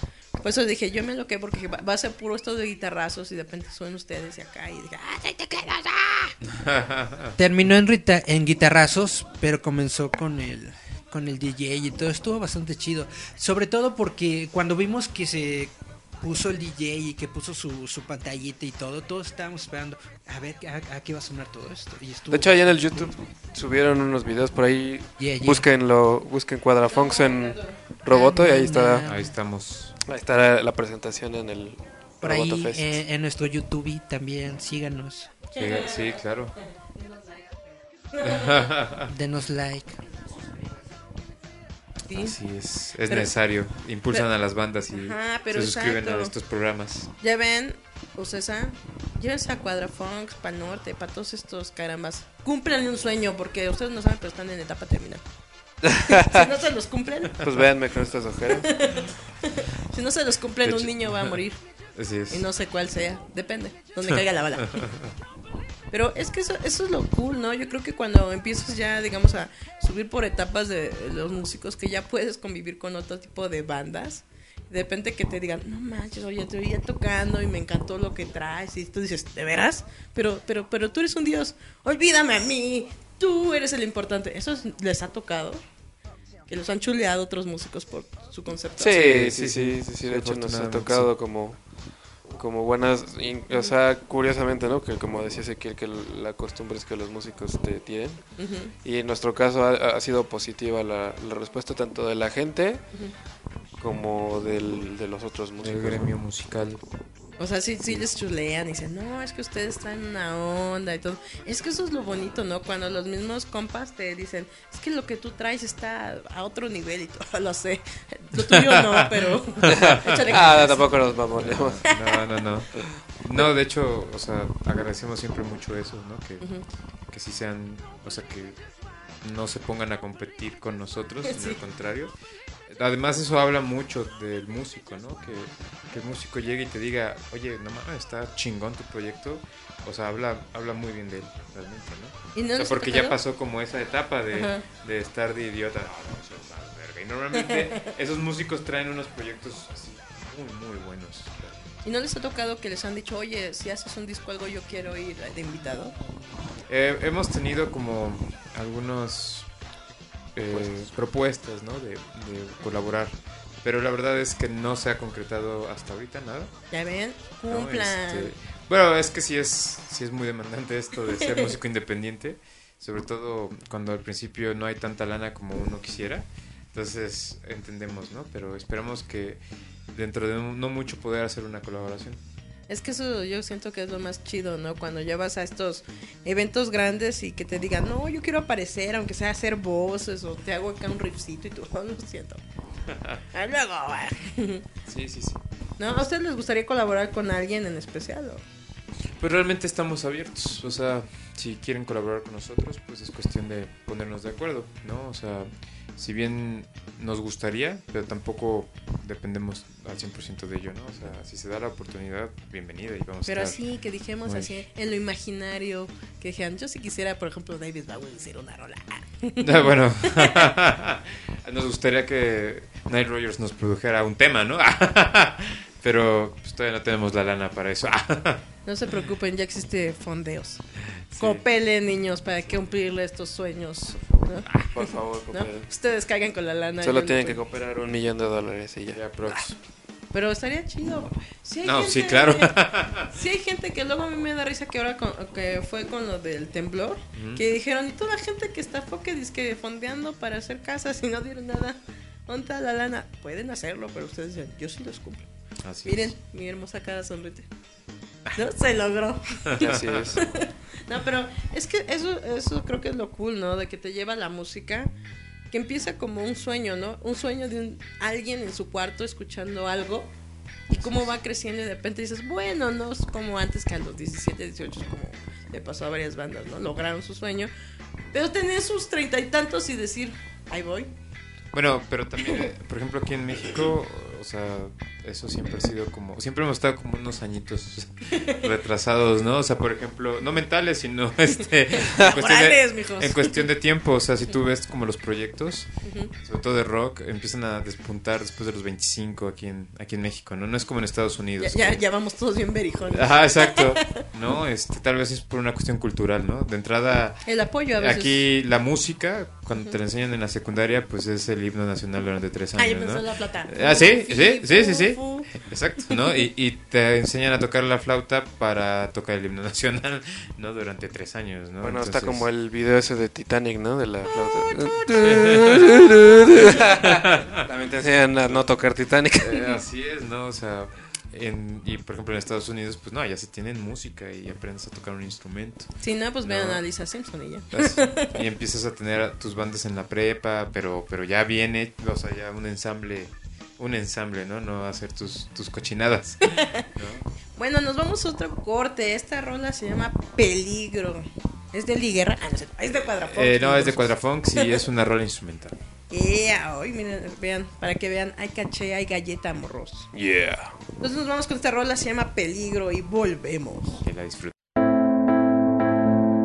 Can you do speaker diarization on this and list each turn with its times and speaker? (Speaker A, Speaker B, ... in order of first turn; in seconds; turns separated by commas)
Speaker A: 0.4-6.3, Speaker B: 6.5-7.3, Speaker C: 7.4-23.1, Speaker D: 22.3-29.1, Speaker C: 25.2-25.7, Speaker A: 26.9-27.8, Speaker C: 28.1-29.3, Speaker B: 29.0-29.9, Speaker D: 30.1-33.0, Speaker C: 32.2-35.4, Speaker A: 35.5-36.2, Speaker B: 35.5-36.5, Speaker A: 37.0-37.6, Speaker A: 38.1-38.5, Speaker B: 38.2-39.1, Speaker C: 39.1-40.0, Speaker A: 42.1-42.4, Speaker B: 42.1-47.1, Speaker A: 43.1-43.3, Speaker A: 44.9-46.3, Speaker A: 47.2-55.2, Speaker D: 55.9-56.4, Speaker A: 55.9-57.4, Speaker D: 57.4-58.7, Speaker A: 58.5-61.6, Speaker B: 60.6-61.4, Speaker B: 62.0-62.5, Speaker A: 62.3-64.8, Speaker B: 64.7-65.1, Speaker A: 65.9-85.6, Speaker A: 86.5-89.0, Speaker D: 88.8-91.6, Speaker B: 88.9-91.1, Speaker D: 92.3-98.2, Speaker A: 98.4-98.7, Speaker D: 98.8-102.8, Speaker D: 103.8-106.1, Speaker B: 105.6-106.8, Speaker A: 107.4-121.0, Speaker B: 118.3-120.3, Speaker D: 119.7-121.9, Speaker B: 121.3-126.5, Speaker B: 127.1-128.6, Speaker B: 129.2-132.1, Speaker A: 131.3-131.6, Speaker B: 132.7-151.7, Speaker A: 142.3-143.2, Speaker A: 144.3-144.6, Speaker A: 151.8-155.9, Speaker B: 156.7-159.5, Speaker B: 160.3-166.5, Speaker D: 160.5-160.8, Speaker A: 166.7-168.3, Speaker B: 167.5-182.2, Speaker A: 182.7-192.4, Speaker B: 192.9-193.2, Speaker A: 193.3-194.6, Speaker B: 194.9-195.4, Speaker A: 195.8-198.4, Speaker B: 199.2-213.6, Speaker A: 213.2-220.5, Speaker B: 214.2-214.5, Speaker B: 219.4-228.4, Speaker A: 228.7-230.6, Speaker B: 231.1-231.4, Speaker A: 231.2-237.4, Speaker B: 234.1-234.7, Speaker D: 234.7-235.7, Speaker D: 236.8-239.4, Speaker B: 238.9-239.6, Speaker A: 240.1-255.2, Speaker B: 241.6-243.1, Speaker B: 247.1-247.4, Speaker B: 255.6-256.1, Speaker A: 255.8-257.5, Speaker A: 258.3-259.6, Speaker B: 259.5-260.1, Speaker D: 259.6-260.2, Speaker A: 260.1-264.9, Speaker A: 265.5-270.1, Speaker A: 270.7-277.5, Speaker B: 270.7-271.1, Speaker A: 278.1-280.9, Speaker B: 281.5-295.7, Speaker A: 288.1-288.4, Speaker A: 291.8-293.4, Speaker A: 295.8-296.1, Speaker B: 296.2-301.8, Speaker A: 301.4-303.8, Speaker B: 302.9-322.2, Speaker A: 307.2-308.2, Speaker A: 312.6-315.3, Speaker D: 321.6-329.6, Speaker B: 325.0-325.8, Speaker B: 326.3-327.4, Speaker B: 329.2-335.7, Speaker A: 335.8-338.1, Speaker B: 336.2-336.6, Speaker B: 337.5-347.0, Speaker A: 346.3-346.6, Speaker A: 347.4-354.6, Speaker B: 353.0-355.6, Speaker A: 355.9-359.9, Speaker D: 359.9-360.5, Speaker A: 360.8-363.8, Speaker B: 363.8-364.3